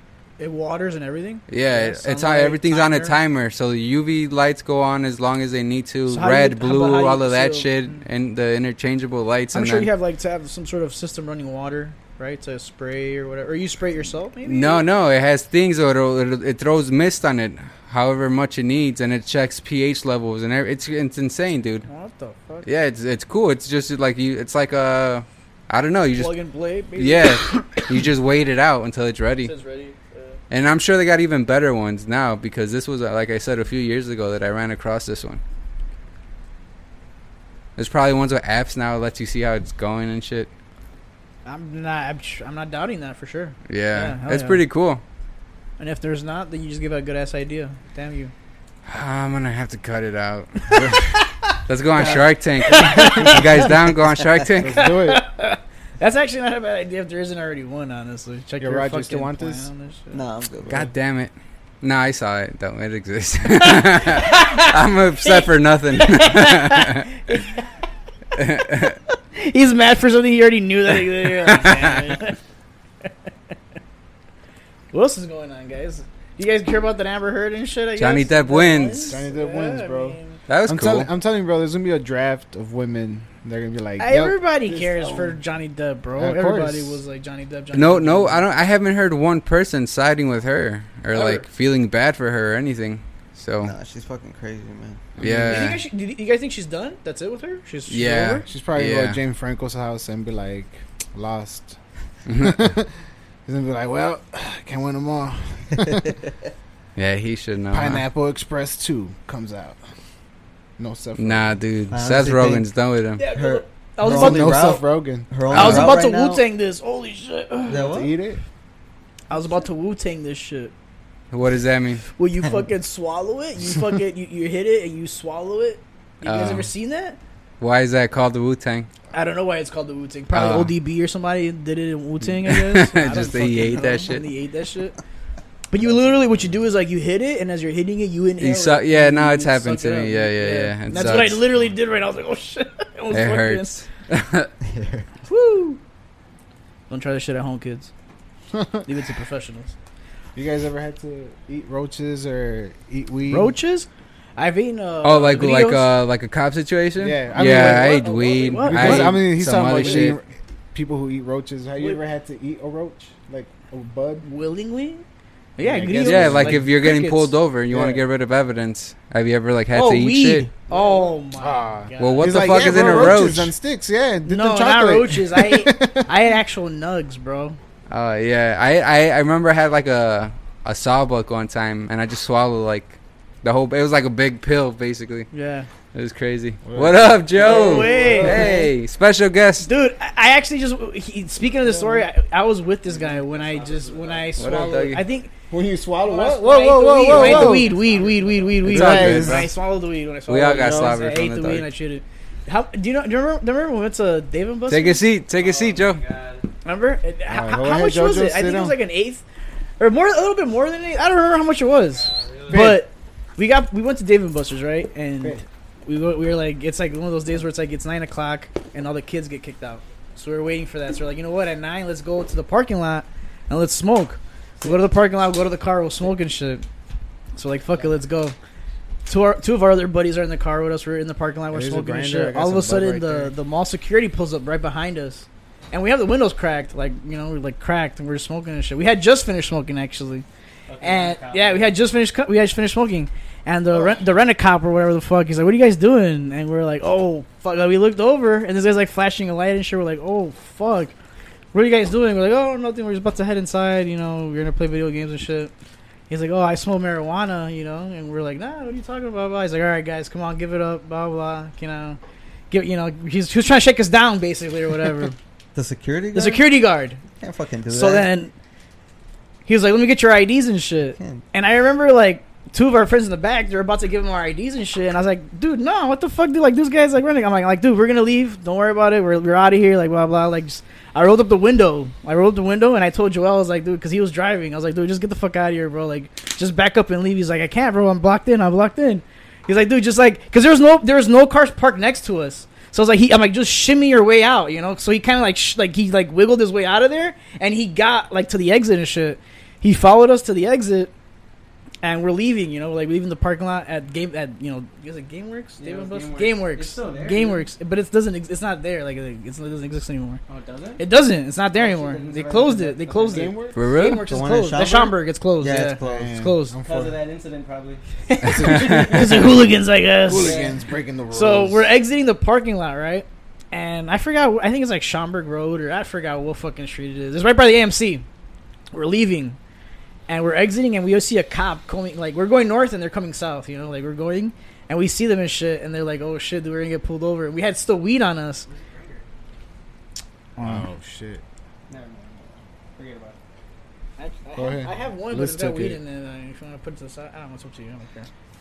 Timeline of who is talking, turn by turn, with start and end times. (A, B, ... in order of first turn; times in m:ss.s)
0:00.4-0:03.2 A
0:01.5-0:09.9 B
0:06.1-0:07.7 A
0:09.5-0:14.8 A
0:14.4-0:21.8 B
0:21.9-0:22.7 A
0:22.6-0:26.3 B
0:26.2-0:27.9 A
0:27.0-0:29.5 B
0:29.4-0:30.4 A
0:30.5-0:35.4 B
0:37.8-0:40.5 B
0:41.4-0:44.6 A
0:43.7-0:45.0 B
0:45.8-0:48.3 A
0:48.9-0:54.8 B
0:52.6-0:53.5 A
0:53.0-0:53.3 C
0:54.6-0:55.2 C
0:54.7-1:00.2 A
0:58.6-0:59.7 C
1:00.1-1:00.9 D
1:00.7-1:07.1 B
1:03.6-1:07.6 A
1:08.4-1:09.0 B
1:09.3-1:12.4 A
1:11.5-1:11.9 B
1:14.9-1:20.4 A
1:18.0-1:19.2 B
1:19.0-1:24.4 C
1:20.5-1:21.1 B
1:24.0-1:28.4 A
1:24.7-1:25.3 D
1:26.2-1:27.0 C
1:27.7-1:33.7 B
1:31.1-1:31.4 A
1:33.6-1:35.1 D
1:35.2-1:35.8 C
1:35.2-1:35.8 B
1:35.4-1:38.4 A
1:37.9-1:39.2 B
1:38.4-1:41.8 C
1:42.2-1:42.7 B
1:42.3-1:42.9 C
1:43.4-1:46.2 C
1:47.0-1:48.0 B
1:47.7-1:49.8 C
1:50.8-1:51.6 C
1:51.2-1:53.2 B
1:51.9-1:52.6 D
1:53.2-1:54.8 A
1:53.2-1:56.4 D
1:54.0-1:55.8 C
1:55.5-1:55.9 B
1:55.5-1:58.0 A
1:57.7-1:58.1 D
1:57.7-1:58.4 C
1:59.3-2:00.7 A
2:01.3-2:02.0 B
2:02.2-2:07.2 A
2:06.2-2:06.7 B
2:07.6-2:08.9 B
2:09.1-2:15.0 A
2:10.3-2:10.7 B
2:12.4-2:14.2 B
2:15.7-2:23.8 A
2:18.4-2:21.4 B
2:23.1-2:24.5 B
2:24.7-2:25.0 D
2:25.3-2:25.8 A
2:26.9-2:27.9 A
2:28.5-2:28.8 C
2:28.8-2:29.7 A
2:30.3-2:33.5 C
2:33.3-2:35.9 A
2:35.0-2:40.2 B
2:37.0-2:44.2 C
2:37.3-2:39.2 A
2:39.8-2:40.0 A
2:44.2-2:45.0 A
2:45.6-2:47.3 A
2:45.6-2:46.7 C
2:46.0-2:50.5 B
2:47.7-2:48.0 C
2:49.7-2:53.3 A
2:51.4-2:56.1 C
2:52.0-2:53.5 B
2:54.2-2:57.6 A
2:57.9-3:05.3 B
3:05.3-3:05.7 A
3:05.9-3:09.7 B
3:06.6-3:08.6 C
3:07.4-3:08.5 E
3:07.4-3:08.6 A
3:09.6-3:15.3 A
3:11.6-3:12.1 C
3:12.8-3:14.8 E
3:14.4-3:15.0 B
3:15.5-3:17.7 C
3:16.0-3:18.7 E
3:16.3-3:25.0 A
3:18.6-3:19.5 C
3:18.6-3:19.5 B
3:20.3-3:21.7 B
3:24.7-3:26.0 B
3:25.3-3:26.4 E
3:26.6-3:29.2 A
3:27.3-3:28.8 C
3:29.8-3:46.6 A
3:31.9-3:32.8 E
3:32.5-3:32.8 C
3:47.3-3:48.3 A
3:49.0-4:00.2 A
3:51.5-3:53.3 C
4:00.7-4:01.8 E
4:00.8-4:10.9 A
4:11.5-4:15.5 A
4:16.1-4:22.0 A
4:22.5-4:25.2 A
4:25.5-4:26.5 D
4:26.1-4:27.0 A
4:27.2-4:28.1 D
4:27.7-4:28.3 A
4:29.4-5:00.9 A
5:01.8-5:10.2 A
5:05.6-5:07.5 E
5:10.3-5:10.8 E
5:10.8-5:16.6 A
5:11.5-5:13.4 E
5:13.1-5:13.6 C
5:13.5-5:14.0 B
5:14.0-5:16.1 D
5:15.8-5:17.0 C
5:16.6-5:19.3 E
5:18.1-5:20.4 A
5:18.2-5:19.4 C
5:18.4-5:18.8 B
5:20.1-5:21.7 C
5:20.1-5:20.6 E
5:21.1-5:28.0 A
5:28.7-5:29.4 A
5:30.1-5:38.5 A
5:38.4-5:39.0 E
5:40.4-5:40.6 A
5:40.4-5:41.2 C
5:41.7-5:43.2 E
5:44.0-5:48.1 A
5:44.4-5:45.8 C